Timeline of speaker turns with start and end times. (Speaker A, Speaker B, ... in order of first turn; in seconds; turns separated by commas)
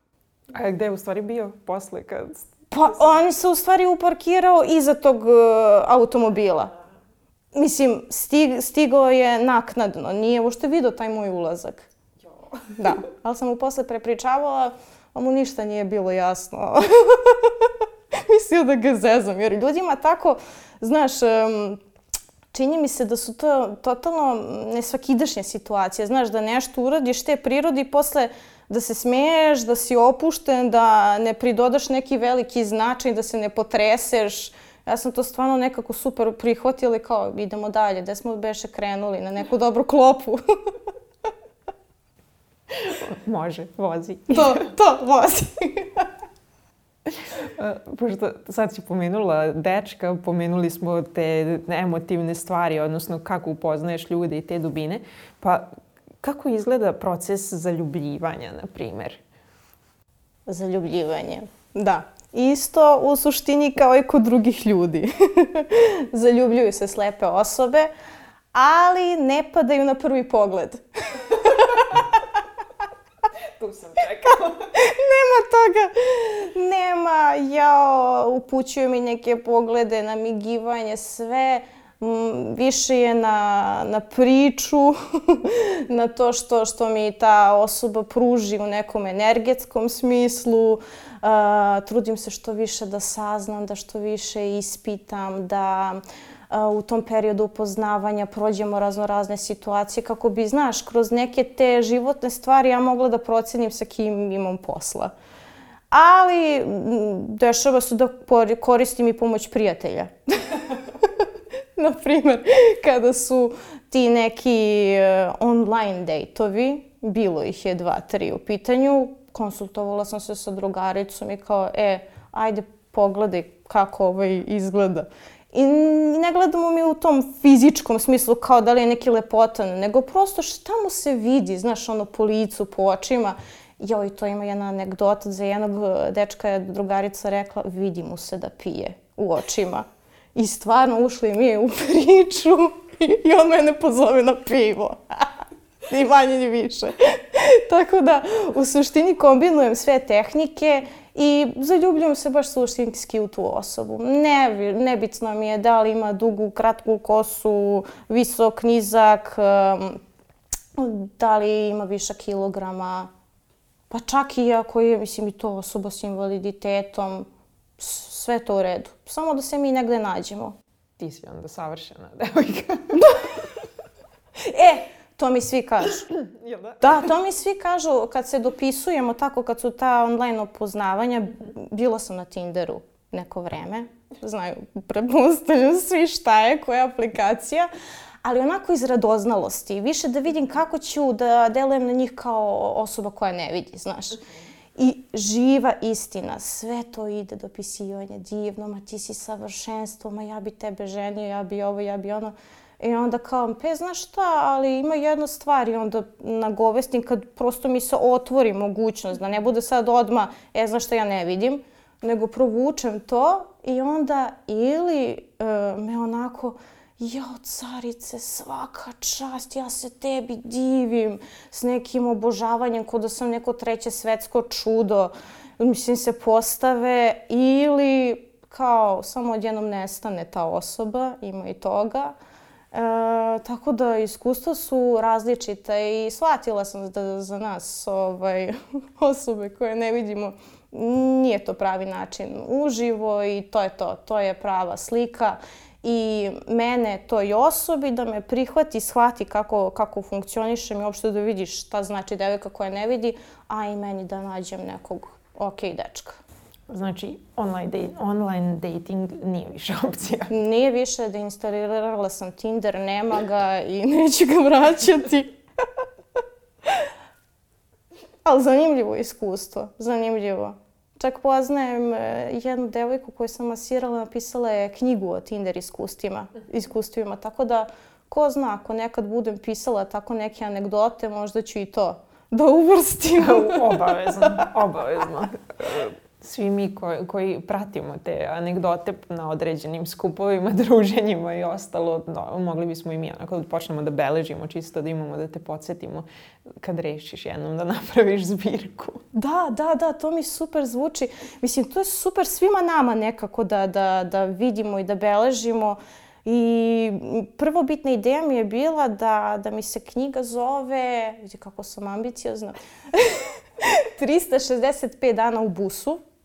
Speaker A: 0.6-2.5, Speaker B: 2.7-6.7, Speaker B: 7.5-11.9, Speaker B: 12.7-21.8, Speaker B: 22.5-40.4, Speaker A: 42.7-44.7, Speaker B: 44.3-46.1, Speaker A: 47.1-55.7, Speaker A: 56.2-59.2, Speaker B: 60.5-67.9, Speaker B: 68.5-72.2, Speaker A: 73.4-74.7, Speaker B: 74.7-105.1, Speaker B: 105.9-111.1, Speaker B: 111.8-145.3, Speaker B: 145.9-160.0, Speaker B: 160.8-163.1, Speaker B: 163.9-167.3, Speaker B: 167.8-170.6, Speaker A: 171.0-173.4, Speaker B: 174.4-176.1, Speaker A: 176.1-177.0, Speaker B: 176.8-187.7, Speaker B: 188.2-194.2, Speaker B: 194.8-232.2, Speaker B: 232.7-256.2, Speaker A: 256.7-260.3, Speaker B: 260.3-265.3, Speaker B: 268.2-284.4, Speaker A: 283.2-296.1, Speaker A: 296.6-299.0, Speaker B: 299.1-316.0